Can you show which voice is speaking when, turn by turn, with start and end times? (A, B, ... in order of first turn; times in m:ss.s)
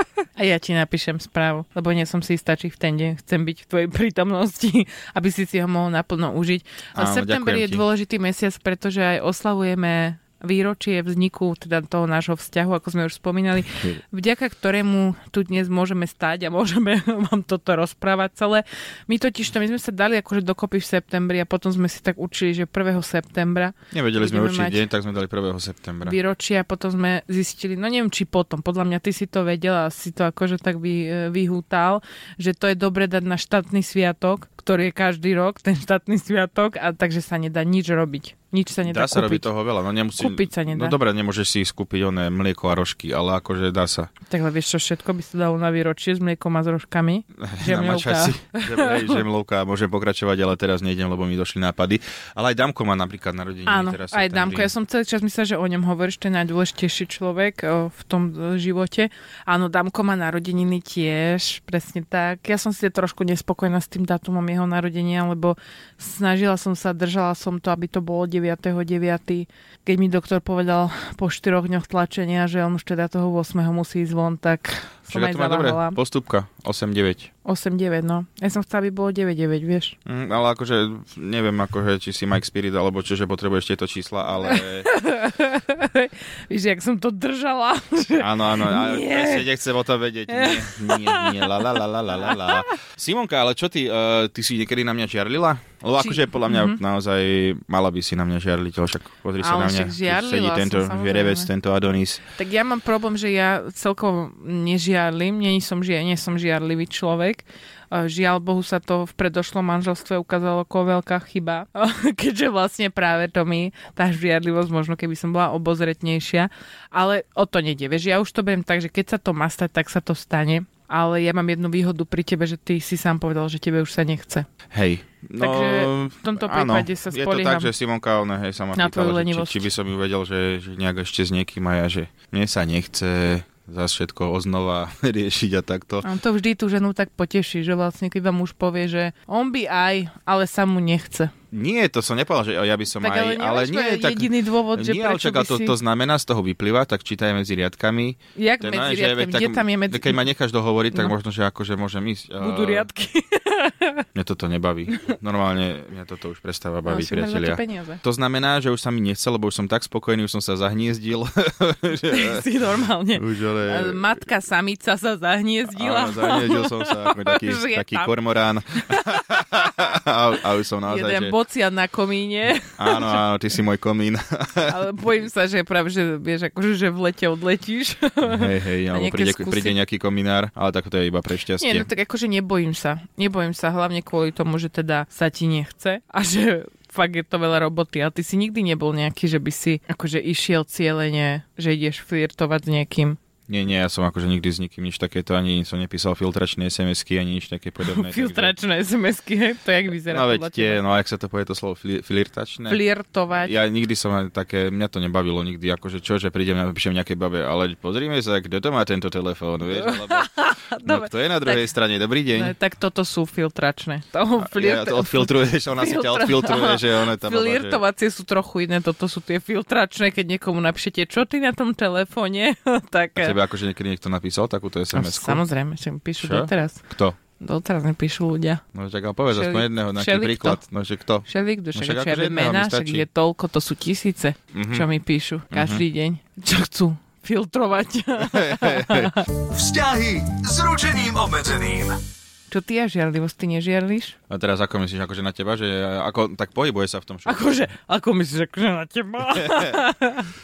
0:00.4-0:24.8 A
0:07.0-0:07.8 B
0:23.9-0:26.2 B
0:26.0-0:39.5 A
0:38.8-0:44.1 B
0:40.2-0:41.0 A
0:44.3-0:49.2 A
0:47.4-0:54.7 B
0:53.7-1:16.0 A
1:15.1-1:17.3 B
1:17.4-1:19.9 A
1:20.0-1:24.9 B
1:24.4-1:29.5 A
1:28.2-1:42.2 B
1:30.3-1:31.7 A
1:32.2-1:32.6 A
1:36.0-1:36.8 A
1:39.4-1:41.5 A
1:42.4-2:04.5 A
2:04.7-2:16.0 B
2:05.4-2:07.7 A
2:08.7-2:09.7 A
2:16.0-2:21.3 A
2:21.5-2:32.9 B
2:23.0-2:25.8 A
2:28.4-2:30.2 A
2:32.4-2:34.0 A
2:34.1-2:42.4 B
2:36.8-2:38.0 A
2:42.1-2:48.1 A
2:43.1-2:44.0 B
2:45.7-2:51.3 B
2:48.8-2:49.8 A
2:50.8-2:53.2 A
2:52.7-2:54.8 B
2:54.6-2:59.7 A
2:58.2-3:01.9 B
3:01.6-3:13.2 A
3:13.5-3:18.5 B
3:17.8-3:20.8 A
3:20.1-3:22.8 B
3:22.7-3:23.5 A
3:23.4-3:30.3 B
3:29.7-3:31.7 A
3:30.8-3:32.5 B
3:32.3-3:43.4 A
3:34.4-3:37.8 B
3:43.2-3:45.4 B
3:44.9-3:46.8 A
3:46.2-3:47.2 B
3:47.4-3:48.6 A
3:48.7-3:53.0 B
3:49.3-3:50.6 A
3:51.3-3:59.3 A
3:54.5-3:54.9 B
3:55.5-3:55.8 B
3:58.2-3:59.2 B
3:59.4-4:02.0 C
4:02.5-4:04.2 A
4:04.3-4:07.5 B
4:07.2-4:10.3 A
4:09.3-4:09.8 B